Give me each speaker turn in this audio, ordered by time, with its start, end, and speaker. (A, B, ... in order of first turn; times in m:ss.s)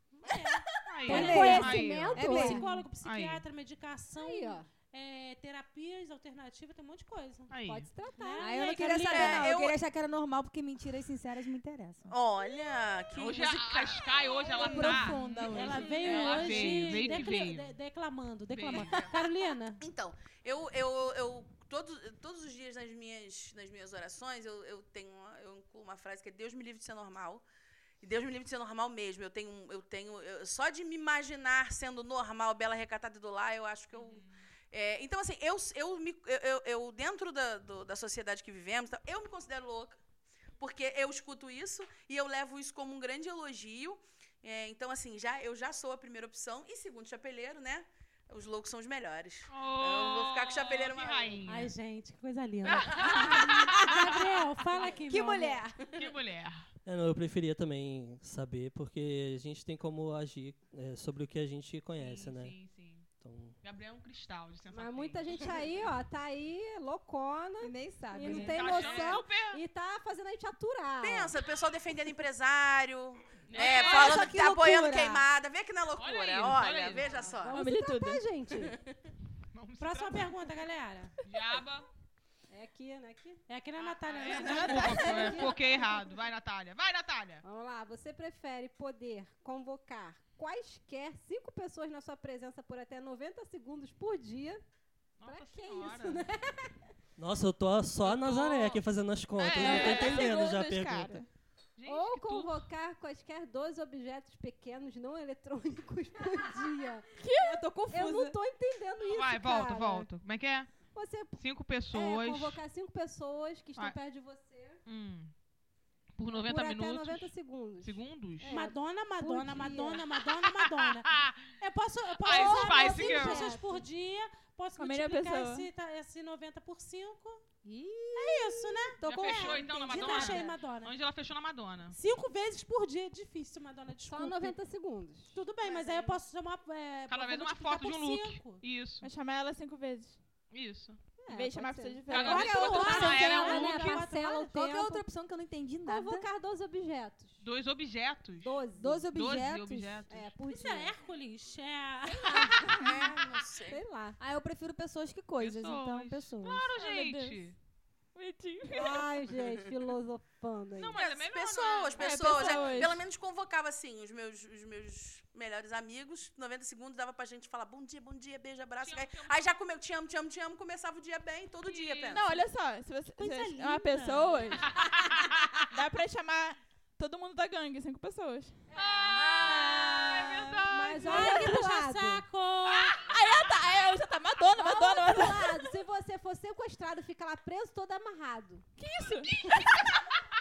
0:00.2-0:07.5 A
0:00.9-0:02.2 B
0:01.1-0:02.8 C
0:01.1-0:02.6 D
0:03.0-0:03.4 B
0:04.2-0:04.7 D
0:07.5-0:07.9 B
0:07.7-0:08.8 D
0:08.2-0:09.5 A
0:08.4-0:12.1 C
0:08.9-0:09.8 E
0:12.1-0:14.4 E
0:13.2-0:17.7 B
0:14.5-0:17.2 C
0:14.5-0:15.2 D
0:14.8-0:19.8 A
0:16.0-0:16.4 E
0:18.5-0:19.1 B
0:18.8-0:19.2 E
0:19.8-0:27.4 E
0:28.0-0:40.0 E
0:33.9-0:34.4 B
0:40.6-0:51.4 E
0:49.5-0:51.7 B
0:51.5-0:55.6 A
0:52.7-0:54.1 B
0:55.0-0:56.0 C
0:55.9-0:56.7 B
0:56.9-1:02.6 F
1:02.0-1:03.1 B
1:03.2-1:03.6 F
1:03.6-1:05.6 B
1:04.7-1:11.4 D
1:07.6-1:09.2 C
1:08.2-1:09.6 B
1:11.0-1:17.6 E
1:13.4-1:14.4 B
1:13.6-1:15.2 C
1:16.0-1:17.3 B
1:17.3-1:18.8 D
1:17.5-1:18.2 G
1:19.5-1:20.3 B
1:19.8-1:21.2 A
1:21.2-1:21.9 B
1:22.5-1:23.4 D
1:23.5-1:25.6 A
1:23.8-1:27.4 B
1:24.3-1:25.7 D
1:27.4-1:34.6 D
1:35.2-1:36.3 B
1:35.2-1:36.7 D
1:37.2-1:41.2 F
1:38.0-1:38.8 B
1:39.4-1:40.3 B
1:39.4-1:41.3 G
1:41.8-1:42.6 B
1:41.9-1:47.1 D
1:47.2-1:48.4 C
1:47.2-1:47.6 G
1:47.9-1:50.1 D
1:49.0-1:50.8 B
1:50.9-1:54.8 D
1:51.4-1:52.6 B
1:54.8-1:55.3 B
1:56.2-1:57.3 B
1:56.4-2:00.0 D
1:57.8-1:58.6 B
1:58.4-2:07.4 A
2:01.0-2:01.5 B
2:02.2-2:03.5 B
2:02.2-2:03.8 D
2:04.8-2:05.7 G
2:07.7-2:08.1 C
2:08.2-2:10.9 A
2:09.0-2:09.3 C
2:09.0-2:12.0 B
2:09.9-2:10.5 D
2:11.9-2:14.6 A
2:14.1-2:16.1 D
2:15.3-2:18.6 A
2:17.1-2:19.1 B
2:19.0-2:20.2 G
2:20.5-2:21.0 B
2:21.2-2:25.0 D
2:21.3-2:22.9 G
2:22.1-2:24.0 B
2:22.1-2:24.5 A
2:22.4-2:23.2 C
2:24.5-2:26.3 C
2:25.8-2:27.4 D
2:27.4-2:28.6 B
2:28.4-2:29.1 D
2:28.8-2:30.1 C
2:29.1-2:30.2 B
2:30.1-2:30.9 D
2:30.5-2:32.8 A
2:32.3-2:32.8 D
2:32.8-2:33.8 E
2:33.7-2:34.2 D
2:34.2-2:36.7 C
2:35.4-2:37.6 B
2:36.8-2:37.4 G
2:38.2-2:39.1 G
2:38.7-2:41.0 D
2:40.8-2:42.9 B
2:41.0-2:52.3 E
2:42.0-2:43.0 G
2:48.8-2:49.6 B
2:51.6-2:52.2 B
2:52.1-2:54.6 G
2:53.2-2:54.7 A
2:54.8-2:55.5 B
2:55.7-2:58.6 G
2:58.7-3:01.4 B
2:59.4-3:00.5 G
3:00.7-3:02.2 D
3:01.0-3:03.0 A
3:03.0-3:05.6 G
3:04.6-3:08.7 D
3:08.8-3:09.3 G
3:09.3-3:10.0 B